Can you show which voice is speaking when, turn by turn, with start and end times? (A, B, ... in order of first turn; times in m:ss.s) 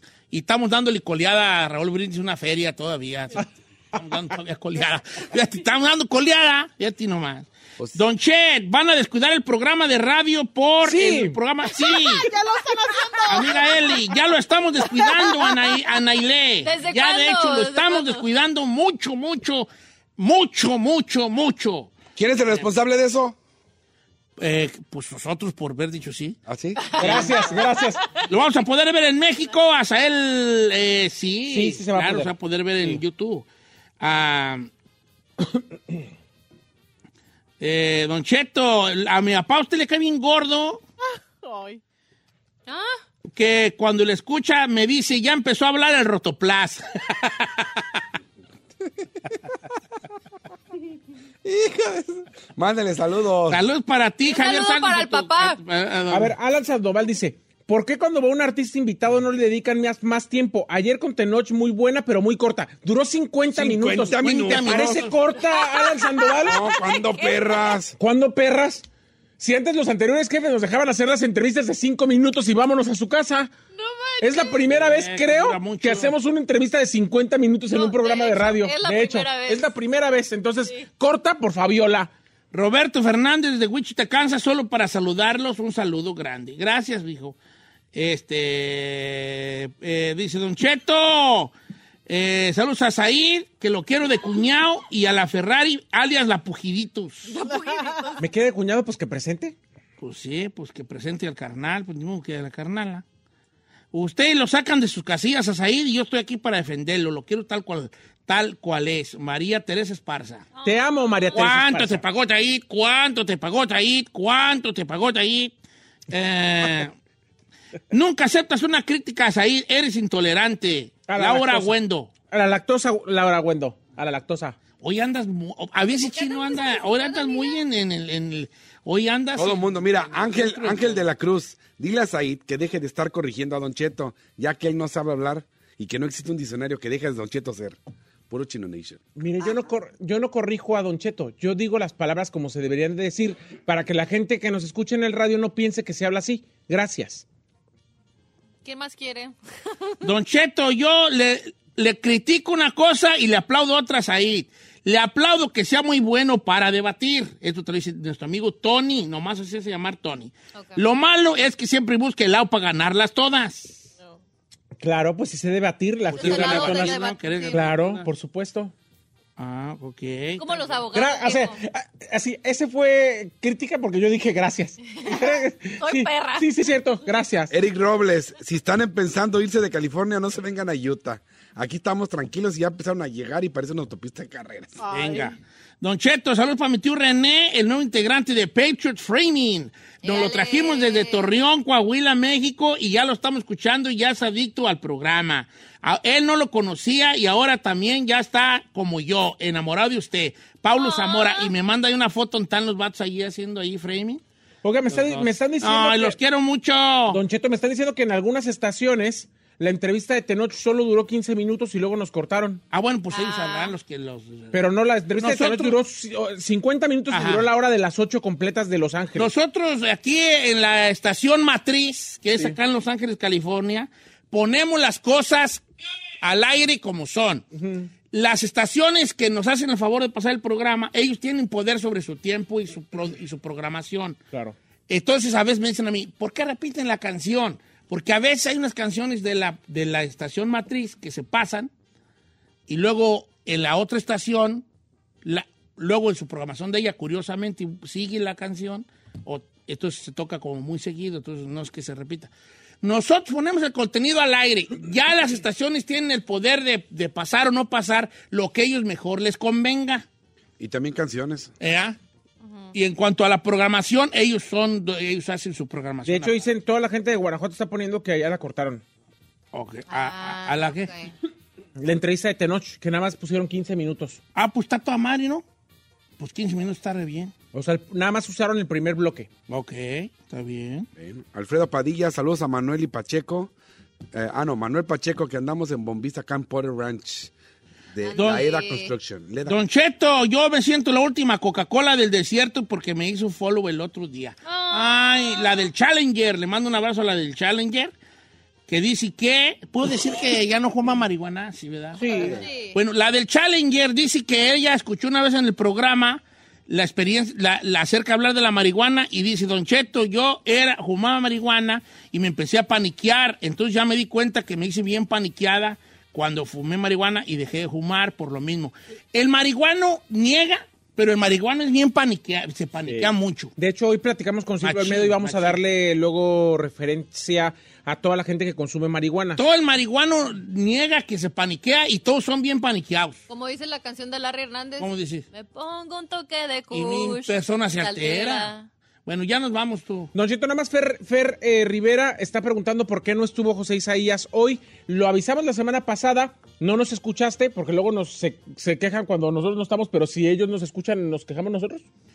0:00.3-0:12.3 A
0:10.8-0:11.4 B
0:11.7-0:14.2 C
0:13.3-0:13.5 D
0:13.3-0:22.7 A
0:14.8-0:15.8 C
0:16.6-0:18.2 D
0:22.2-0:23.4 E
0:24.4-0:26.4 A
0:26.5-0:27.2 E
0:26.8-0:27.6 D
0:27.0-0:28.0 B
0:27.0-0:27.6 A
0:28.2-0:33.4 A
0:31.5-0:33.0 B
0:34.0-0:34.7 A
0:37.6-0:40.8 A
0:41.0-0:41.8 C
0:42.7-0:43.0 D
0:43.3-0:47.8 A
0:51.4-0:53.6 E
0:53.5-0:56.3 A
0:54.2-0:55.6 D
0:56.1-1:06.7 B
1:03.5-1:05.1 E
1:04.0-1:05.2 A
1:05.4-1:07.8 D
1:06.4-1:08.0 E
1:08.0-1:08.8 B
1:09.4-1:13.5 B
1:13.7-1:14.7 D
1:14.2-1:22.1 B
1:14.7-1:16.1 A
1:17.7-1:19.7 D
1:22.5-1:27.4 A
1:27.9-1:31.5 A
1:32.1-1:37.3 A
1:37.3-1:38.2 D
1:37.5-1:38.2 C
1:38.2-1:39.6 B
1:40.0-1:43.0 A
1:43.9-1:50.4 A
1:50.6-1:52.0 B
1:51.3-1:55.5 A
1:56.1-1:56.9 A
1:57.9-2:02.1 A
2:01.1-2:01.7 B
2:02.3-2:04.6 B
2:04.8-2:11.0 A
2:06.0-2:07.6 D
2:09.4-2:17.8 E
2:18.3-2:19.0 E
2:19.2-2:27.2 B
2:28.6-2:29.3 D
2:30.0-2:43.9 A
2:44.8-2:47.0 B
2:46.1-2:48.1 A
2:46.2-2:47.7 D
2:47.5-2:48.7 B
2:49.4-2:50.7 A
2:50.4-2:51.6 D
2:50.9-2:57.5 B
2:55.0-2:56.5 D
2:57.5-3:04.8 E
3:04.8-3:05.4 C
3:04.9-3:24.2 A
3:10.0-3:11.2 D
3:20.7-3:21.5 D
3:24.6-3:26.2 B
3:24.9-3:27.2 A
3:27.1-3:32.6 B
3:32.7-3:34.6 A
3:33.1-3:33.7 D
3:34.5-3:39.3 B
3:35.2-3:35.8 A
3:37.1-3:37.5 A
3:39.2-3:45.6 A
3:46.2-3:47.4 A
3:47.5-3:47.9 B
3:48.1-3:54.2 A
3:54.9-4:01.7 A
4:02.7-4:04.6 A
4:05.2-4:12.3 A
4:12.8-4:20.0 A
4:20.6-4:21.5 E
4:21.6-4:22.0 A
4:22.7-4:26.4 A
4:26.0-4:28.8 B
4:29.5-4:30.9 A
4:29.9-4:31.1 D
4:31.8-4:34.2 B
4:34.3-4:35.4 A
4:36.2-4:37.3 A
4:37.5-4:39.3 B
4:39.5-4:40.9 A
4:41.0-4:43.5 E
4:44.1-4:47.3 E
4:47.9-4:49.6 E
4:48.0-4:48.9 D
4:48.2-4:48.5 A
4:49.4-4:57.9 A
4:54.4-4:55.6 D
4:58.7-5:02.0 A
5:02.0-5:02.4 B
5:02.1-5:02.8 D
5:02.7-5:23.5 A
5:22.8-5:29.4 B
5:24.6-5:25.6 A
5:29.4-5:33.2 A
5:33.3-5:38.7 D
5:34.8-5:35.2 A
5:36.7-5:38.5 A
5:39.0-5:40.1 A
5:40.1-5:51.8 B